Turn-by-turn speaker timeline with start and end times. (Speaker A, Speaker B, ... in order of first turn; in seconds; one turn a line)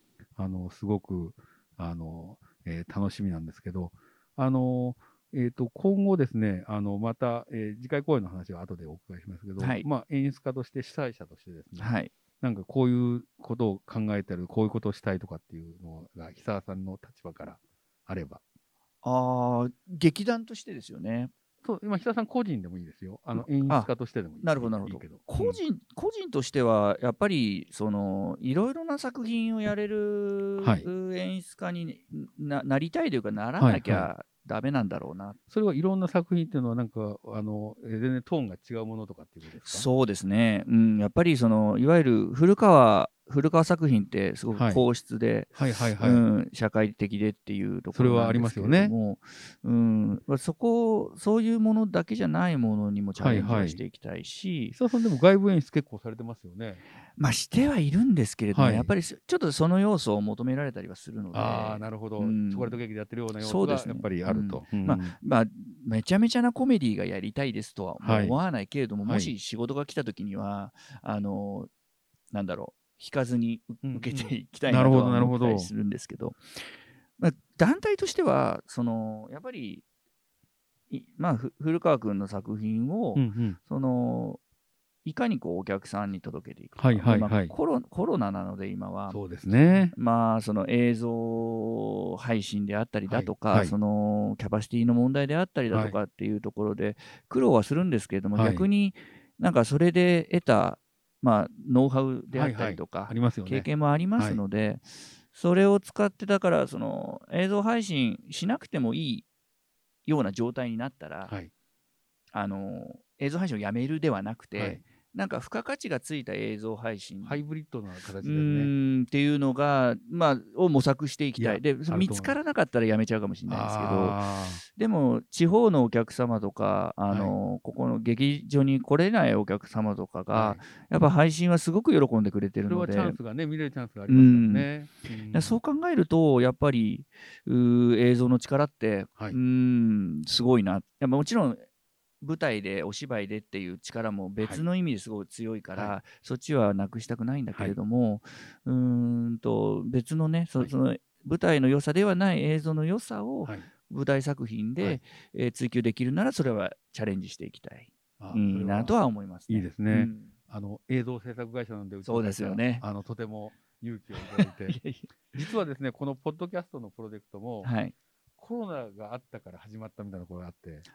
Speaker A: 0.3-18.4
Speaker B: 9.6-9.9
Speaker B: 11.8-12.1
Speaker B: 19.0-21.3
Speaker A: 21.6-25.6
Speaker B: 23.4-35.4
Speaker A: 30.6-30.9
Speaker A: 33.6-34.1
Speaker A: 35.5-39.9
Speaker B: 39.6-54.8
Speaker A: 44.5-44.8
Speaker A: 45.5-46.2
Speaker A: 47.9-48.9
Speaker A: 53.2-53.8
Speaker A: 54.7-56.8
Speaker B: 57.2-62.8
Speaker A: 58.5-58.9
Speaker A: 61.3-65.2
Speaker B: 63.4-71.7
Speaker A: 68.0-68.4
Speaker A: 69.0-69.3
Speaker B: 72.3-76.6
Speaker A: 73.8-75.7
Speaker B: 77.2-79.8
Speaker B: 80.9-84.4
Speaker A: 83.2-83.6
Speaker B: 85.0-89.2
Speaker A: 86.8-87.5
Speaker A: 89.1-89.9
Speaker B: 89.9-109.3
Speaker A: 93.1-93.7
Speaker A: 95.7-96.0
Speaker A: 98.3-98.7
Speaker A: 102.3-104.4
Speaker B: 110.0-111.3
Speaker B: 112.3-117.4
Speaker A: 114.5-114.8
Speaker A: 117.2-118.7
Speaker B: 118.2-133.2
Speaker A: 121.4-122.3
Speaker A: 123.5-124.6
Speaker A: 127.1-127.3
Speaker A: 130.3-130.6
Speaker A: 132.7-135.6
Speaker B: 134.1-134.7
Speaker B: 135.3-141.6
Speaker B: 142.2-160.3
Speaker A: 158.2-158.9
Speaker A: 159.5-164.8
Speaker B: 162.0-162.8
Speaker B: 164.2-165.1
Speaker A: 165.3-167.7
Speaker B: 167.6-167.9
Speaker A: 168.4-170.8